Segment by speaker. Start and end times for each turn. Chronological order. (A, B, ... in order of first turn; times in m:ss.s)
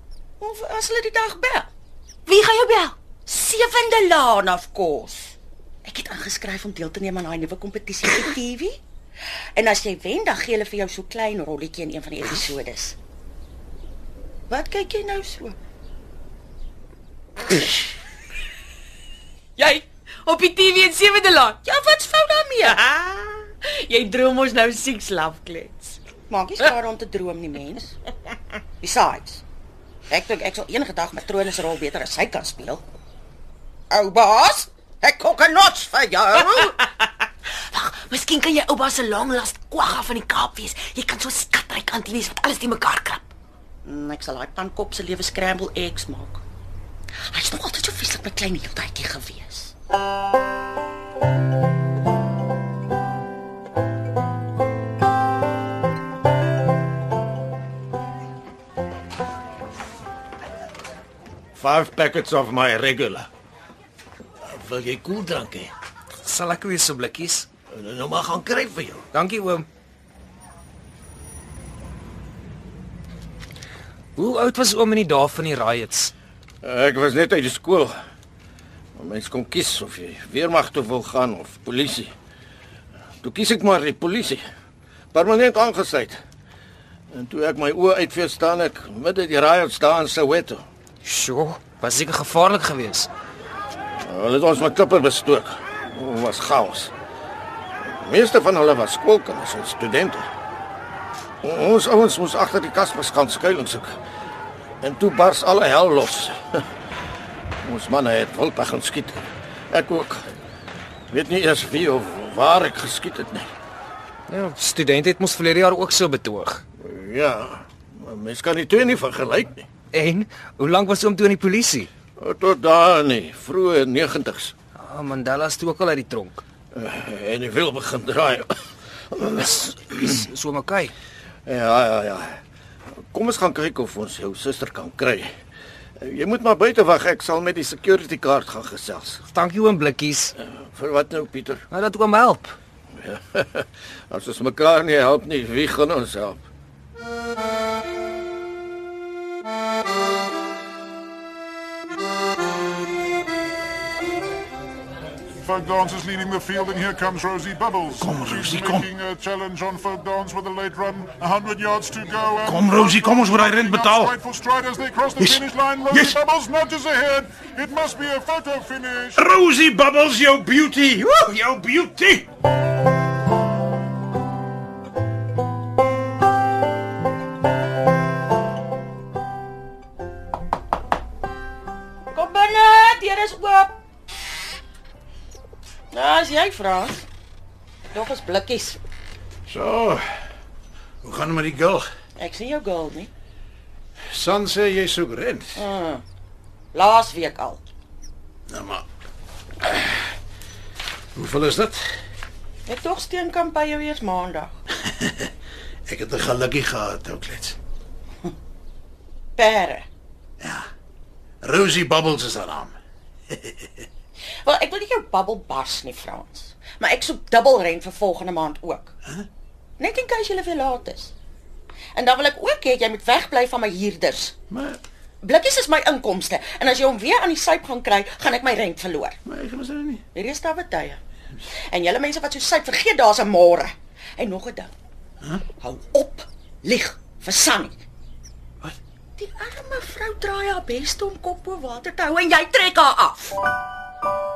0:00.4-0:01.7 A
0:02.3-0:03.0 B
0:03.3-0:08.8 A
0:09.6-0:13.0 A
0:14.5-0:15.6 A
0:19.6-0:21.6 B
0:21.6-0:22.8 A
0:22.7-0:26.0 B
0:26.3-0:28.0 A
0:28.8-0:29.4 A
0:30.1-0:32.8 A
0:33.9-0:36.8 A
0:37.5-0:43.3 B
0:43.8-0:46.4 A
0:47.3-0:49.7 A
1:01.6-1:03.3 C
1:04.5-1:05.7 C
1:06.2-1:07.5 D
1:07.7-1:09.1 C
1:09.1-1:09.7 D
1:14.2-1:16.1 D
1:16.6-1:18.0 C
1:19.0-1:22.1 C
1:23.2-1:24.5 C
1:25.1-1:26.2 C
1:27.1-1:30.6 C
1:31.0-1:33.1 D
1:34.0-1:36.9 C
1:37.8-1:40.3 C
1:41.4-1:44.0 C
1:44.8-1:46.6 C
1:47.6-1:50.3 C
1:51.1-1:53.5 C
1:54.3-1:56.6 D
1:56.8-1:59.7 C
1:59.9-2:01.9 D
2:02.2-2:04.5 C
2:04.8-2:06.4 D
2:06.7-2:08.6 C
2:09.1-2:10.1 C
2:09.9-2:10.9 D
2:11.5-2:12.4 C
2:13.1-2:15.3 C
2:16.0-2:19.2 C
2:19.3-2:20.3 D
2:20.4-2:21.6 C
2:21.7-2:22.6 D
2:23.0-2:26.4 C
2:35.4-2:49.2 E
2:38.0-2:38.9 F
2:42.4-2:44.2 F
2:45.2-2:46.2 F
2:49.2-2:52.3 F
3:02.1-3:03.7 A
3:05.9-3:07.0 A
3:07.9-3:08.8 A
3:09.5-3:10.0 F
3:11.0-3:11.9 F
3:12.2-3:13.1 A
3:14.1-3:15.6 F
3:15.6-3:16.0 A
3:16.7-3:17.7 A
3:18.5-3:18.8 F
3:21.2-3:21.9 F
3:22.7-3:24.6 A
3:24.9-3:25.3 F
3:25.9-3:27.6 F
3:29.4-3:29.9 A
3:30.4-3:30.7 F
3:31.4-3:32.8 F
3:33.3-3:33.8 F
3:34.4-3:38.9 A
3:39.8-3:41.1 A
3:42.0-3:44.4 A
3:44.5-3:44.8 F
3:45.2-3:49.2 A
3:49.3-3:50.0 F
3:50.1-3:51.0 A
3:51.6-3:54.7 A
3:55.6-3:57.8 A
3:59.2-4:03.4 A